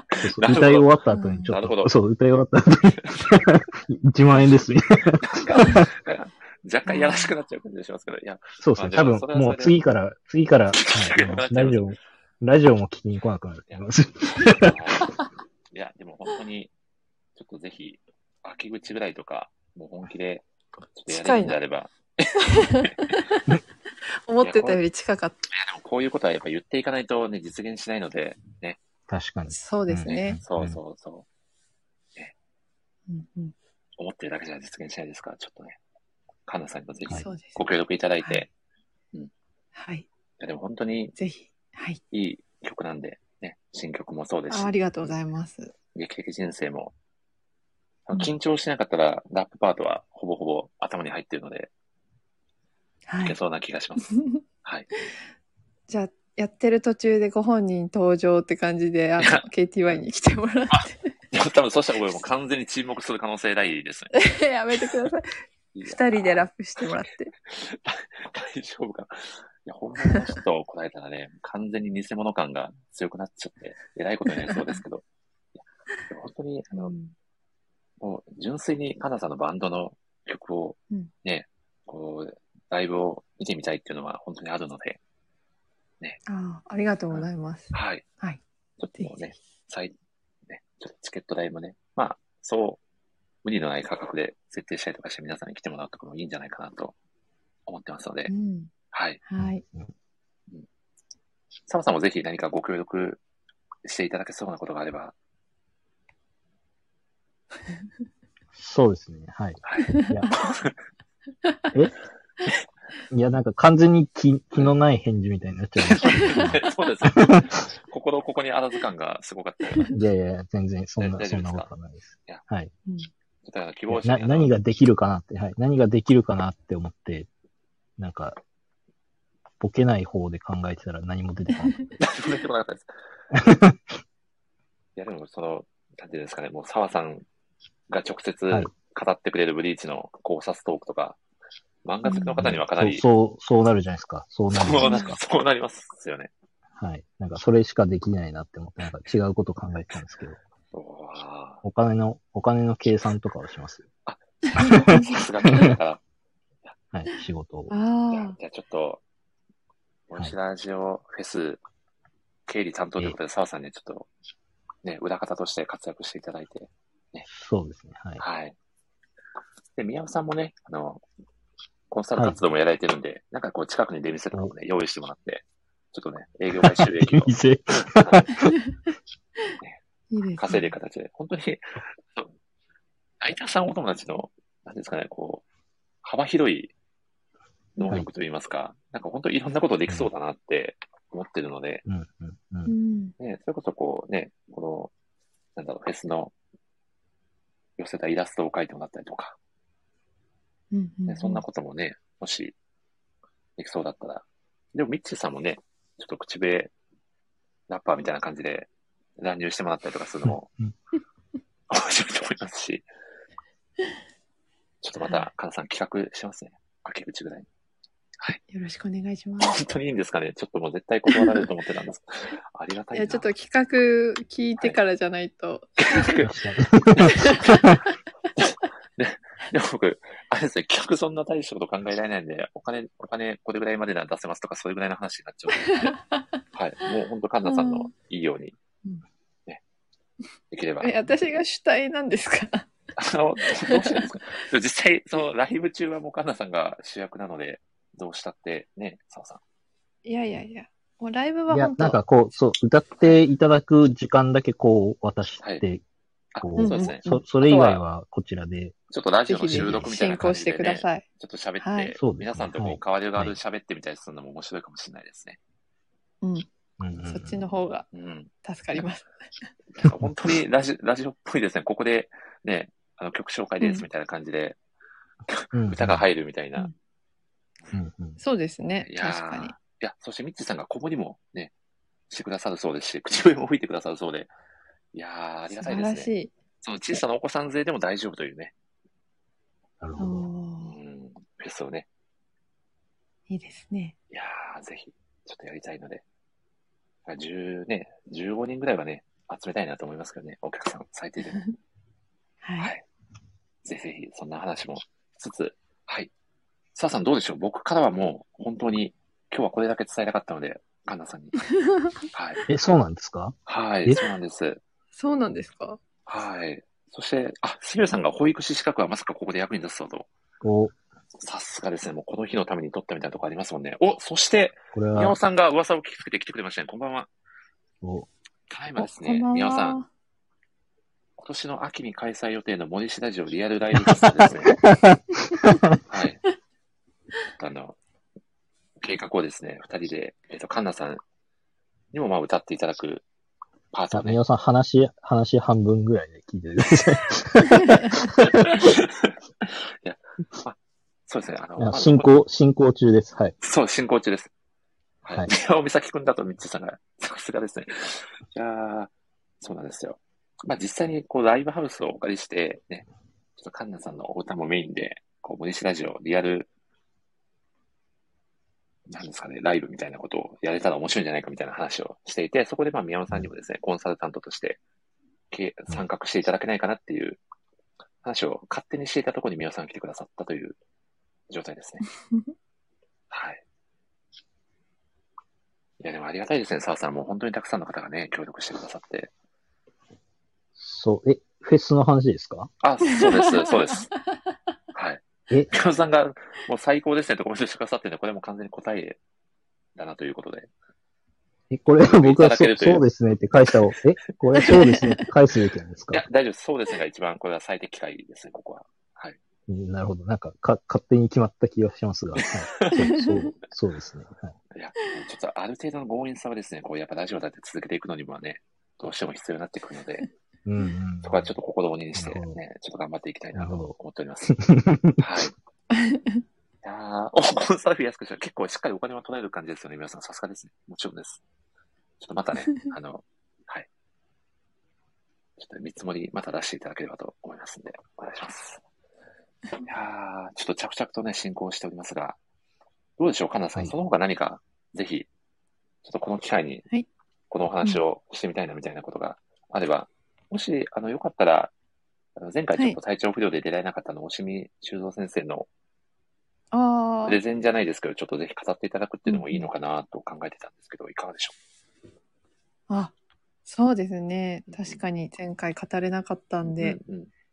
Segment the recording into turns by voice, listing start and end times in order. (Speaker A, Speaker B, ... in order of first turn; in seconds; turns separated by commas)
Speaker A: 0.1-1.0, Speaker B: 0.2-5.9, Speaker C: 1.1-1.5, Speaker A: 1.5-1.9, Speaker A: 5.2-9.8, Speaker C: 6.9-7.3, Speaker B: 8.6-14.8, Speaker A: 10.8-11.8, Speaker A: 14.4-15.1, Speaker A: 15.7-16.7, Speaker A: 17.4-22.9, Speaker C: 21.1-21.6, Speaker C: 22.5-23.5, Speaker C: 24.2-25.5, Speaker A: 24.4-24.8, Speaker A: 25.5-28.8, Speaker B: 29.1-30.8, Speaker C: 29.5-30.4, Speaker A: 30.0-31.2, Speaker C: 33.1-33.5, Speaker A: 34.0-35.8, Speaker A: 36.5-38.5, Speaker C: 37.2-37.6, Speaker C: 39.7-40.1, Speaker A: 40.4-41.1, Speaker C: 41.1-42.0, Speaker A: 42.1-44.7, Speaker C: 44.5-45.7, Speaker A: 45.9-46.9, Speaker A: 48.1-51.7, Speaker C: 53.1-53.4, Speaker A: 53.2-54.9, Speaker C: 54.1-54.4, Speaker C: 55.9-61.1, Speaker A: 59.2-60.0, Speaker A: 60.7-64.1, Speaker C: 64.1-65.3, Speaker A: 65.7-66.8, Speaker C: 65.8-67.3, Speaker A: 67.5-75.0, Speaker C: 74.5-74.8, Speaker A: 76.1-76.9, Speaker C: 76.7-77.1, Speaker A: 78.0-85.0, Speaker C: 86.2-88.4, Speaker A: 87.1-88.0, Speaker A: 88.8-89.9, Speaker C: 89.0-89.3, Speaker A: 90.5-92.8, Speaker A: 93.4-96.9, Speaker A: 97.7-98.3, Speaker C: 98.3-98.7, Speaker A: 98.9-99.2, Speaker C: 99.2-99.6, Speaker B: 99.4-99.9, Speaker A: 101.7-103.2, Speaker A: 103.8-105.1, Speaker B: 108.5-110.3, Speaker A: 109.6-110.7, Speaker C: 109.9-110.5, Speaker B: 113.1-117.5, Speaker A: 115.9-120.0, Speaker C: 116.1-116.4, Speaker B: 119.9-122.7, Speaker A: 121.0-121.7, Speaker A: 123.4-124.5, Speaker B: 123.9-127.3, Speaker B: 128.0-128.4, Speaker B: 129.6-131.9, Speaker C: 131.6-131.8, Speaker A: 132.0-132.9, Speaker B: 133.3-133.8, Speaker A: 134.9-137.2, Speaker A: 137.9-141.2, Speaker A: 141.8-143.0, Speaker C: 142.0-142.5, Speaker B: 142.4-145.2, Speaker A: 144.5-146.3, Speaker C: 144.8-145.2, Speaker B: 146.8-150.4, Speaker A: 150.7-151.6, Speaker B: 151.6-153.9, Speaker A: 154.1-156.0, Speaker C: 154.6-155.2, Speaker B: 154.9-155.7, Speaker B: 156.9-157.7, Speaker C: 157.7-158.4, Speaker A: 158.1-159.0, Speaker A: 160.1-161.6, Speaker A: 162.5-164.1, Speaker A: 164.8-167.3, Speaker B: 167.3-168.2, Speaker A: 168.2-168.5, Speaker A: 169.8-171.0, Speaker A: 171.9-178.3, Speaker B: 176.6-178.5, Speaker C: 180.1-180.7, Speaker A: 180.4-182.3, Speaker A: 183.2-185.4, Speaker A: 186.0-186.7, Speaker A: 187.8-191.8, Speaker B: 191.8-192.7, Speaker C: 192.7-193.1, Speaker A: 193.2-194.9, Speaker A: 195.6-196.3, Speaker A: 197.8-199.3, Speaker C: 200.7-201.4, Speaker A: 201.1-202.5, Speaker A: 203.6-206.7, Speaker A: 207.7-210.5, Speaker B: 210.2-210.7, Speaker A: 211.7-212.8, Speaker A: 214.8-217.5, Speaker C: 215.0-215.3, Speaker C: 218.5-219.6, Speaker A: 219.4-223.3, Speaker C: 221.1-221.4, Speaker C: 222.9-226.1, Speaker A: 225.8-226.3, Speaker B: 226.2-227.8, Speaker A: 226.9-227.6, Speaker C: 227.1-227.7, Speaker A: 228.4-235.9, Speaker C: 235.5-236.4, Speaker A: 236.5-238.6, Speaker C: 237.4-237.9, Speaker A: 240.5-241.0, Speaker C: 240.8-242.7, Speaker A: 242.9-249.4, Speaker C: 243.5-244.0, Speaker C: 250.0-252.0, Speaker B: 251.5-255.8, Speaker A: 256.3-257.8, Speaker B: 256.4-258.7, Speaker C: 256.6-257.2, Speaker A: 258.9-265.4, Speaker C: 259.3-261.0, Speaker B: 259.5-259.9, Speaker C: 261.6-261.9, Speaker B: 262.0-263.4, Speaker C: 266.2-266.5, Speaker B: 266.8-267.4, Speaker C: 267.1-267.9, Speaker A: 267.9-268.9, Speaker C: 268.4-269.1, Speaker A: 269.7-274.6, Speaker C: 273.6-273.9, Speaker A: 275.3-276.7, Speaker B: 275.5-276.0, Speaker B: 277.7-278.2, Speaker C: 278.2-279.6, Speaker A: 278.8-281.5, Speaker A: 282.1-284.3, Speaker A: 284.9-288.5, Speaker C: 285.5-286.3, Speaker B: 289.8-290.3, Speaker C: 290.0-290.8, Speaker A: 290.6-291.9, Speaker C: 293.3-293.9, Speaker A: 294.1-296.0, Speaker A: 297.1-301.4, Speaker C: 302.4-302.7, Speaker A: 302.6-302.8, Speaker A: 303.6-306.1, Speaker A: 306.7-311.4, Speaker C: 311.6-312.0, Speaker A: 312.1-312.4, Speaker B: 312.5-314.0, Speaker A: 313.5-314.6, Speaker C: 314.9-315.8, Speaker A: 316.1-320.1, Speaker B: 320.4-320.7, Speaker A: 321.2-327.1, Speaker B: 324.7-325.1, Speaker B: 327.8-328.1, Speaker A: 328.5-329.8, Speaker C: 328.8-329.9, Speaker A: 331.2-334.6, Speaker B: 333.8-335.0, Speaker C: 335.3-335.6, Speaker B: 335.5-335.8, Speaker A: 335.9-336.2, Speaker A: 337.4-337.8, Speaker A: 338.8-341.0, Speaker A: 341.9-343.0, Speaker A: 343.7-344.2, Speaker B: 343.9-348.6, Speaker A: 348.4-352.1, Speaker B: 351.6-353.3, Speaker A: 353.4-354.3, Speaker A: 355.0-362.9, Speaker A: 363.4-366.5, Speaker A: 368.9-374.6, Speaker A: 375.3-377.2, Speaker A: 378.0-380.6, Speaker A: 381.3-381.8, Speaker A: 383.1-383.4, Speaker A: 385.8-389.1, Speaker B: 390.6-392.5, Speaker A: 392.6-393.9, Speaker C: 393.0-394.2, Speaker A: 394.7-399.0, Speaker A: 399.8-400.5, Speaker B: 401.5-406.0, Speaker A: 401.8-402.8, Speaker C: 404.4-404.9, Speaker A: 405.9-409.2, Speaker B: 409.5-414.3, Speaker A: 412.2-412.7, Speaker C: 412.7-413.3, Speaker A: 414.5-420.1, Speaker B: 420.4-421.3, Speaker A: 421.0-424.4, Speaker B: 421.9-422.4, Speaker B: 423.3-423.8, Speaker B: 424.3-425.0, Speaker A: 425.0-425.3, Speaker C: 425.7-426.2, Speaker A: 426.6-431.2, Speaker A: 432.0-433.7, Speaker A: 435.4-438.6, Speaker A: 439.6-442.2, Speaker A: 443.0-445.1, Speaker A: 445.8-446.6, Speaker A: 447.3-451.5, Speaker A: 452.1-455.5, Speaker C: 456.5-457.2, Speaker A: 457.0-461.3, Speaker C: 459.1-459.5, Speaker C: 462.7-462.9, Speaker C: 463.4-466.8, Speaker A: 464.5-464.8, Speaker A: 466.4-467.1